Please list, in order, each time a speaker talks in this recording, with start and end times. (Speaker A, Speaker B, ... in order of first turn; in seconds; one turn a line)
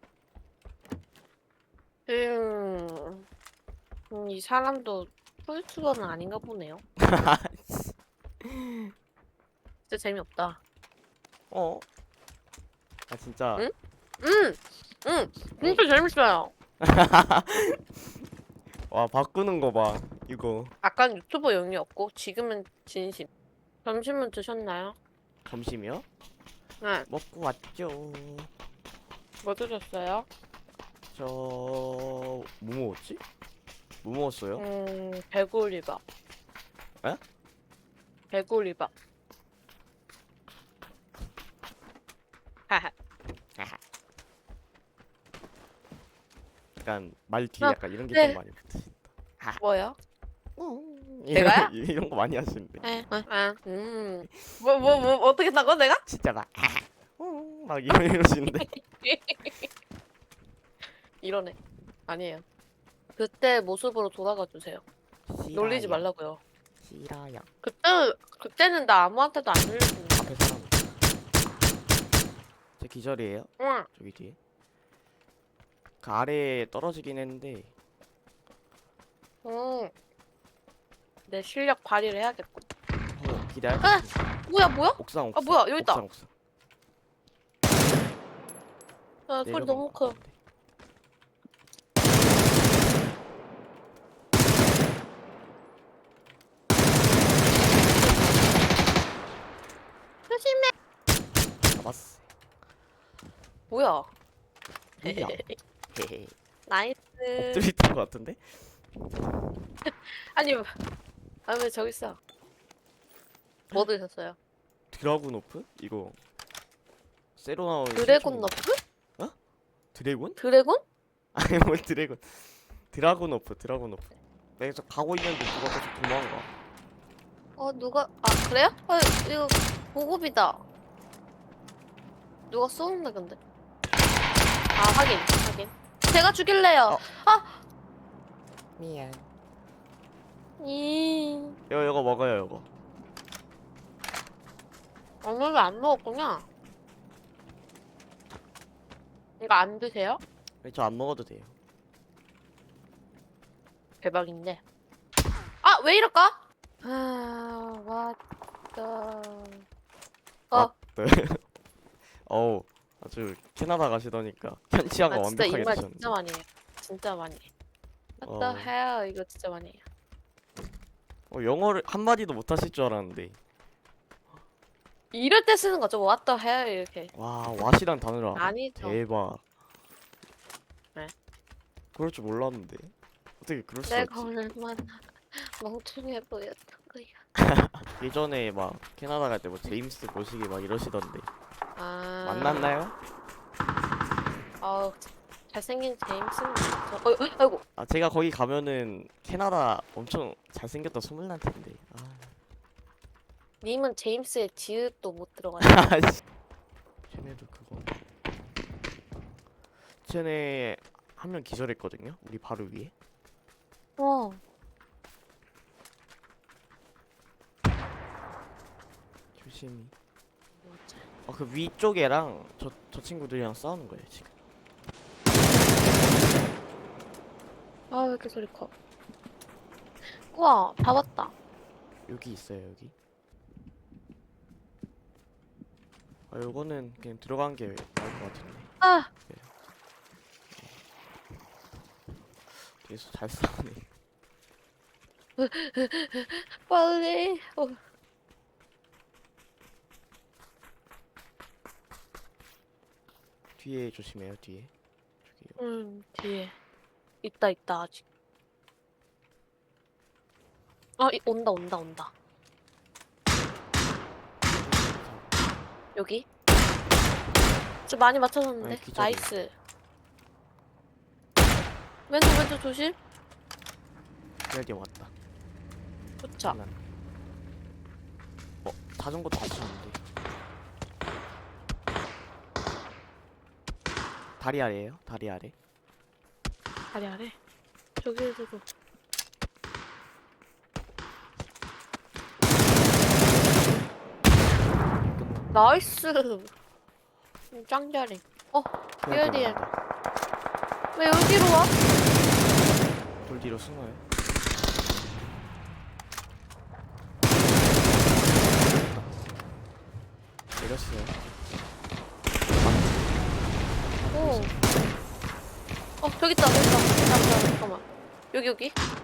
Speaker A: 2.1-3.2
Speaker A: 4.1-6.8
Speaker B: 7.0-8.9
Speaker A: 9.9-10.6
Speaker B: 11.5-11.8
Speaker B: 13.1-13.7
Speaker A: 13.6-16.5
Speaker B: 15.3-15.9
Speaker B: 16.8-18.1
Speaker B: 18.9-20.7
Speaker A: 20.8-23.3
Speaker A: 23.8-24.9
Speaker B: 25.4-26.1
Speaker A: 26.8-27.1
Speaker B: 27.1-28.5
Speaker A: 29.4-30.3
Speaker B: 31.1-33.2
Speaker B: 34.0-34.6
Speaker A: 34.6-36.0
Speaker A: 38.3-38.9
Speaker B: 46.8-49.6
Speaker A: 47.6-48.4
Speaker A: 49.6-50.0
Speaker B: 50.5-52.8
Speaker A: 51.3-51.7
Speaker A: 52.8-56.0
Speaker B: 54.3-54.6
Speaker B: 56.0-58.7
Speaker A: 58.5-59.7
Speaker A: 61.2-62.4
Speaker A: 63.2-64.8
Speaker B: 65.3-66.1
Speaker A: 65.5-66.4
Speaker B: 66.8-67.5
Speaker A: 67.6-70.2
Speaker B: 70.1-70.9
Speaker B: 72.8-74.4
Speaker A: 73.6-73.9
Speaker B: 76.0-77.7
Speaker A: 79.4-79.9
Speaker A: 81.3-82.6
Speaker B: 83.1-84.2
Speaker A: 83.8-86.0
Speaker B: 85.0-86.3
Speaker A: 89.3-90.2
Speaker B: 89.5-90.3
Speaker A: 97.8-98.7
Speaker A: 100.3-100.7
Speaker B: 101.7-102.2
Speaker A: 103.7-104.1
Speaker B: 105.0-105.4
Speaker A: 105.0-105.6
Speaker B: 105.9-106.3
Speaker A: 106.7-107.7
Speaker B: 107.4-108.4
Speaker A: 109.8-110.7
Speaker A: 111.5-112.2
Speaker A: 113.7-114.4
Speaker B: 114.9-116.2
Speaker B: 117.4-118.5
Speaker A: 117.9-118.8
Speaker B: 119.9-120.4
Speaker A: 120.4-120.8
Speaker B: 121.3-124.0
Speaker B: 124.6-126.5
Speaker A: 127.6-130.6
Speaker A: 132.5-133.4
Speaker A: 134.7-137.6
Speaker B: 138.8-139.3
Speaker A: 140.6-141.6
Speaker B: 141.7-142.7
Speaker A: 145.2-146.4
Speaker A: 149.4-150.2
Speaker B: 150.6-151.5
Speaker A: 154.0-154.6
Speaker A: 155.6-158.2
Speaker A: 158.7-159.6
Speaker B: 160.5-161.4
Speaker B: 162.2-166.1
Speaker A: 165.1-167.5
Speaker A: 168.2-169.8
Speaker B: 168.2-168.7
Speaker B: 171.3-173.4
Speaker A: 175.1-177.1
Speaker B: 177.1-179.4
Speaker A: 178.3-179.0
Speaker B: 181.9-184.3
Speaker A: 183.9-187.2
Speaker B: 187.4-191.3
Speaker A: 191.8-192.7
Speaker B: 192.2-192.9
Speaker A: 194.6-197.6
Speaker B: 197.8-202.3
Speaker A: 203.6-205.9
Speaker B: 205.6-206.2
Speaker B: 207.1-207.9
Speaker B: 210.0-212.9
Speaker A: 214.0-214.4
Speaker B: 219.4-219.9
Speaker A: 220.6-221.1
Speaker B: 221.2-224.3
Speaker A: 227.9-228.7
Speaker A: 230.1-231.3
Speaker B: 232.1-232.9
Speaker B: 236.3-238.7
Speaker A: 238.8-239.1
Speaker B: 242.5-243.9
Speaker A: 245.4-247.8
Speaker B: 253.6-254.7
Speaker B: 255.2-255.6
Speaker A: 255.6-256.5
Speaker A: 257.2-258.0
Speaker A: 261.0-262.1
Speaker B: 264.5-265.3
Speaker A: 265.9-266.2
Speaker A: 267.9-269.5
Speaker B: 268.6-269.3
Speaker A: 272.1-272.9
Speaker B: 274.5-275.1
Speaker A: 276.2-276.6
Speaker B: 276.4-276.8
Speaker B: 278.6-280.0
Speaker B: 284.4-285.5
Speaker A: 286.9-287.3
Speaker A: 288.0-288.6
Speaker A: 295.5-296.5
Speaker A: 297.5-299.6
Speaker B: 299.0-299.7
Speaker A: 300.9-301.8
Speaker B: 303.2-304.0
Speaker B: 308.7-309.2
Speaker B: 310.6-311.4
Speaker B: 312.5-313.3
Speaker B: 314.1-314.8
Speaker A: 314.1-314.5
Speaker A: 316.0-318.7